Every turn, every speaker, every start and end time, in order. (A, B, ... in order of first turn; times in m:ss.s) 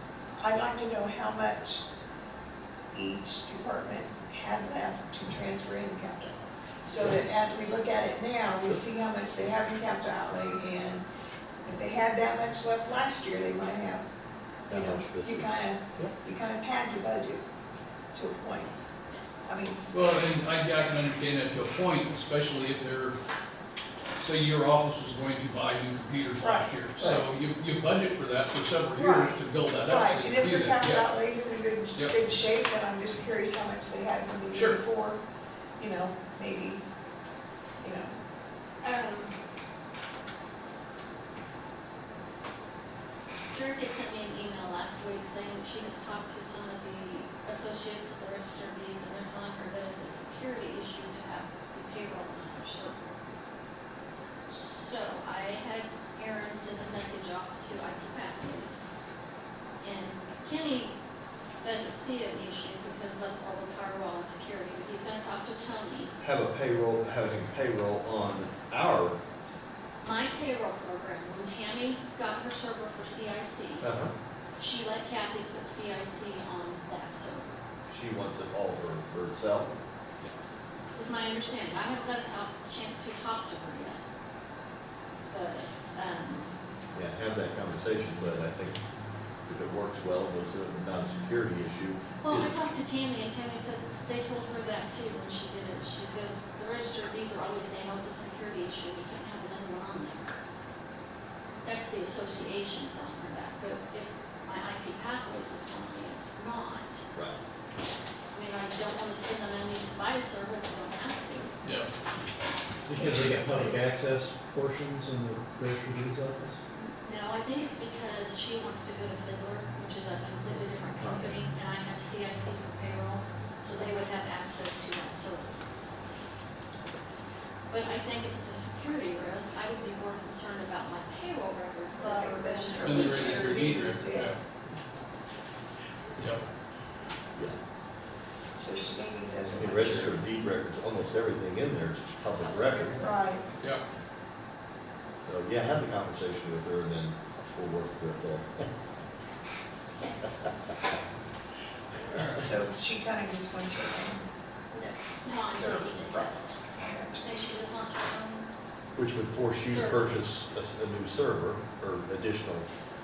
0:00.4-0:01.8 A
0:02.9-0:11.0 A
0:11.6-0:14.1 A
0:14.7-0:16.1 B
0:14.7-0:17.4 A
0:18.1-0:18.7 A
0:19.4-0:19.8 A
0:19.9-0:23.2 C
0:24.2-0:31.1 C
0:26.4-0:26.7 A
0:29.0-0:35.2 A
0:34.5-0:34.8 C
0:35.8-0:36.8 A
0:37.8-0:38.2 A
0:38.8-0:39.3 D
0:43.5-0:53.1 D
0:54.5-0:58.8 D
0:59.8-1:01.0 D
1:01.6-1:06.1 D
1:06.2-1:09.2 B
1:10.0-1:13.9 D
1:13.8-1:14.1 B
1:14.6-1:17.5 D
1:17.9-1:19.8 B
1:20.2-1:24.0 D
1:25.3-1:26.5 D
1:26.9-1:28.8 B
1:29.5-1:32.5 B
1:32.2-1:40.4 D
1:41.6-1:47.0 D
1:47.1-1:47.4 B
1:48.3-1:51.5 D
1:51.6-1:51.9 C
1:52.8-1:56.6 E
1:56.7-2:05.5 D
2:01.0-2:01.4 E
2:07.7-2:13.6 D
2:11.9-2:14.4 A
2:12.8-2:14.4 C
2:16.2-2:16.4 C
2:18.6-2:20.2 A
2:19.5-2:23.1 B
2:22.4-2:23.4 A
2:25.3-2:28.7 B
2:32.0-2:32.5 C
2:32.4-2:34.3 A
2:34.7-2:36.6 D
2:35.3-2:37.3 A
2:37.1-2:38.5 D
2:39.0-2:42.7 B
2:39.7-2:40.2 D